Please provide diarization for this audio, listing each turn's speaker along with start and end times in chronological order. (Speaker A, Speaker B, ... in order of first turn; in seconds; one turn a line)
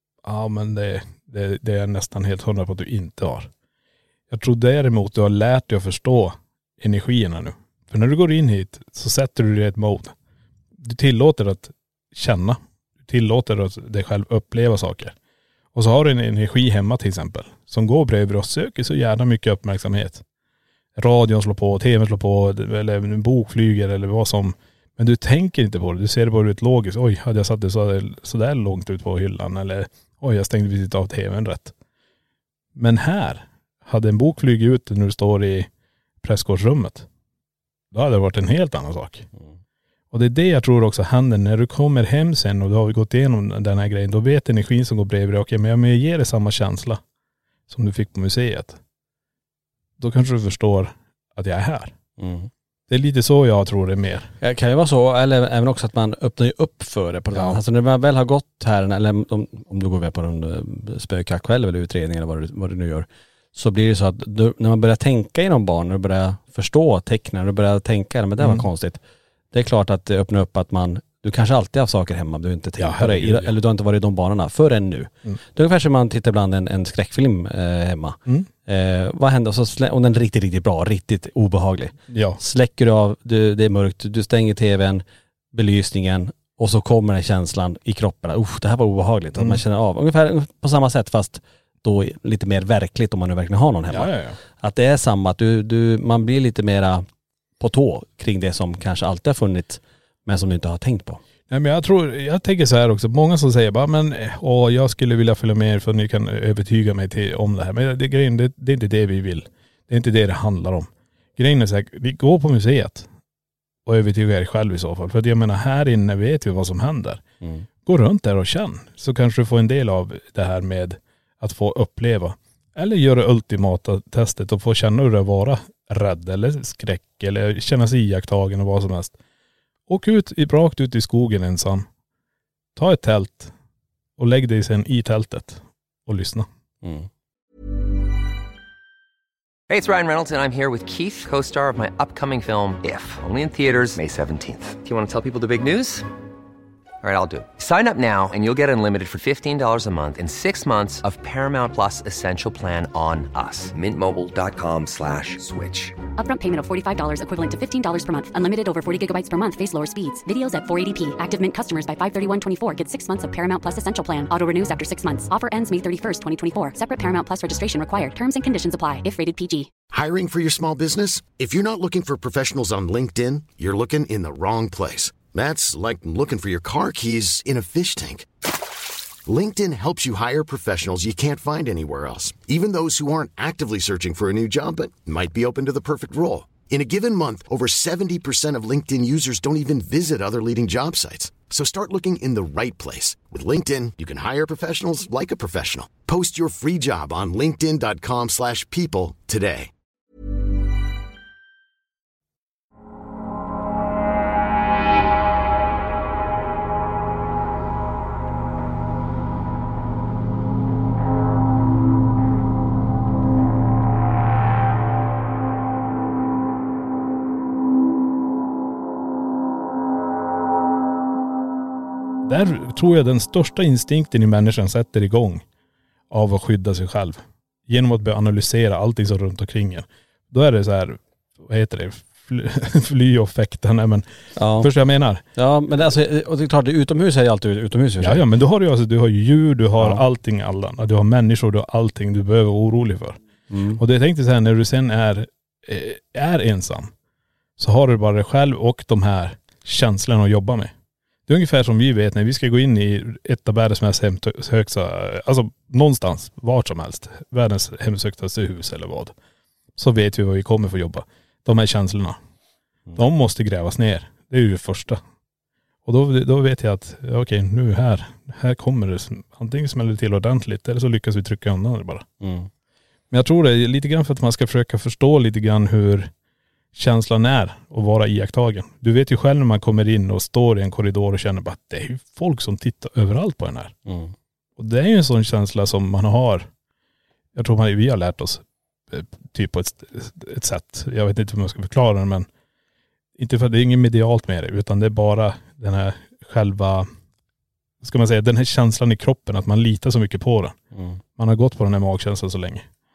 Speaker A: 0.2-3.5
Speaker A: 4.3-10.2
Speaker A: 10.8-15.1
Speaker A: 15.7-20.2
Speaker A: 20.9-31.7
Speaker A: 32.7-35.7
Speaker A: 36.2-37.1
Speaker A: 37.9-39.3
Speaker A: 40.1-47.0
Speaker A: 47.7-48.8
Speaker A: 50.0-51.9
Speaker B: 52.2-52.5
Speaker A: 52.9-54.3
Speaker B: 54.4-69.0
Speaker A: 57.3-57.6
Speaker A: 68.4-68.7
Speaker B: 69.5-97.0
Speaker A: 72.8-73.5
Speaker A: 82.1-82.4
Speaker A: 89.3-89.6
Speaker A: 93.9-94.4
Speaker B: 97.6-101.2
Speaker A: 101.5-113.1
Speaker A: 113.8-117.2
Speaker B: 117.4-117.7
Speaker A: 117.8-129.2
Speaker A: 129.9-131.9
Speaker A: 132.8-133.5
Speaker A: 134.2-136.5
Speaker B: 136.8-137.1
Speaker C: 139.7-146.1
Speaker C: 147.0-156.0
Speaker D: 156.2-169.7
Speaker E: 169.9-178.3
Speaker E: 179.2-199.7
Speaker A: 222.2-225.4
Speaker A: 226.1-235.2
Speaker B: 234.3-234.7
Speaker B: 235.3-238.2
Speaker A: 238.0-243.2
Speaker B: 243.5-243.8
Speaker A: 243.8-246.9
Speaker A: 247.6-250.7
Speaker A: 251.3-259.1
Speaker A: 259.8-262.2
Speaker A: 262.9-265.0
Speaker A: 265.8-272.1
Speaker B: 272.2-272.5
Speaker A: 273.1-276.1
Speaker A: 276.7-283.8
Speaker B: 283.9-284.1
Speaker A: 284.6-286.5
Speaker A: 287.3-292.3
Speaker A: 293.2-296.9
Speaker A: 297.8-300.6
Speaker B: 300.7-301.0
Speaker A: 301.2-302.6